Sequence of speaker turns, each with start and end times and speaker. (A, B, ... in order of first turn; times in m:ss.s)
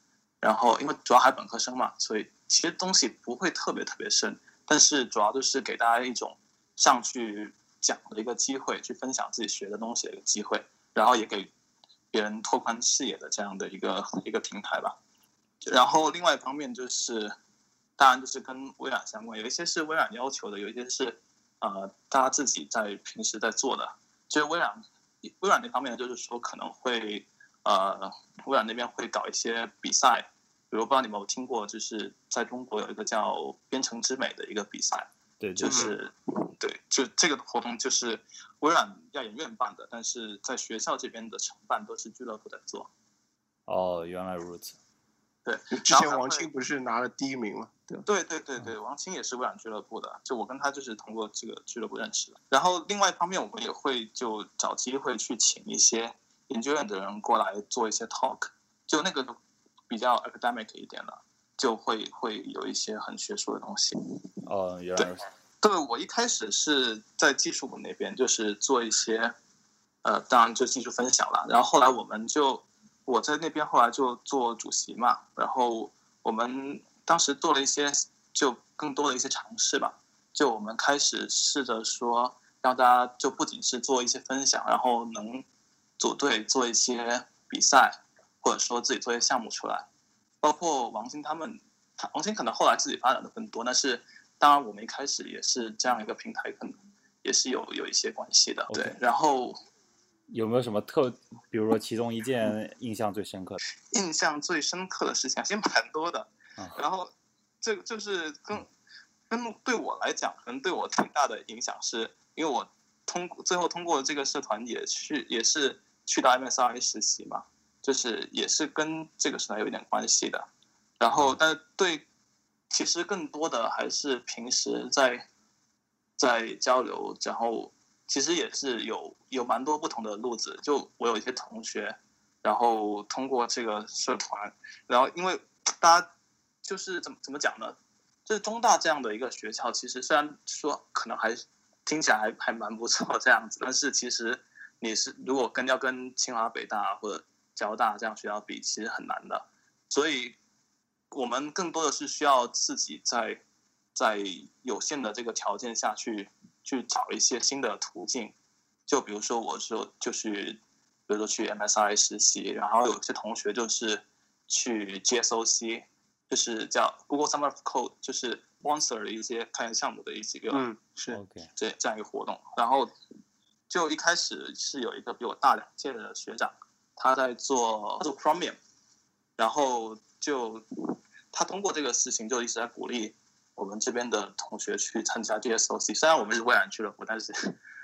0:00.4-0:11.5 A
0:12.1-0:15.0 A
0:15.7-0:17.4 A
0:18.0-0:35.1 A
0:35.4-0:35.9 B
0:35.6-0:42.9 A
0:35.7-0:35.9 C
0:43.7-0:44.8 B
0:45.4-0:46.5 A
0:45.7-0:48.0 C
0:48.0-0:59.4 A
0:59.9-1:04.0 A
1:04.5-1:05.2 B
1:05.6-1:09.3 A
1:10.0-1:25.4 A
1:26.0-1:29.9 A
1:30.4-1:39.6 A
1:38.7-1:39.0 B
1:40.3-1:43.6 B
1:43.9-1:48.7 A
1:49.3-2:00.5 A
2:01.0-2:02.1 A
2:02.7-2:05.3 A
2:06.2-2:16.1 A
2:16.6-2:30.4 A
2:31.1-2:33.4 A
2:34.0-2:38.3 A
2:38.9-2:50.6 A
2:50.5-2:51.2 C
2:51.1-2:51.5 B
2:51.6-2:52.9 A
2:53.7-2:58.6 A
2:59.4-3:07.6 A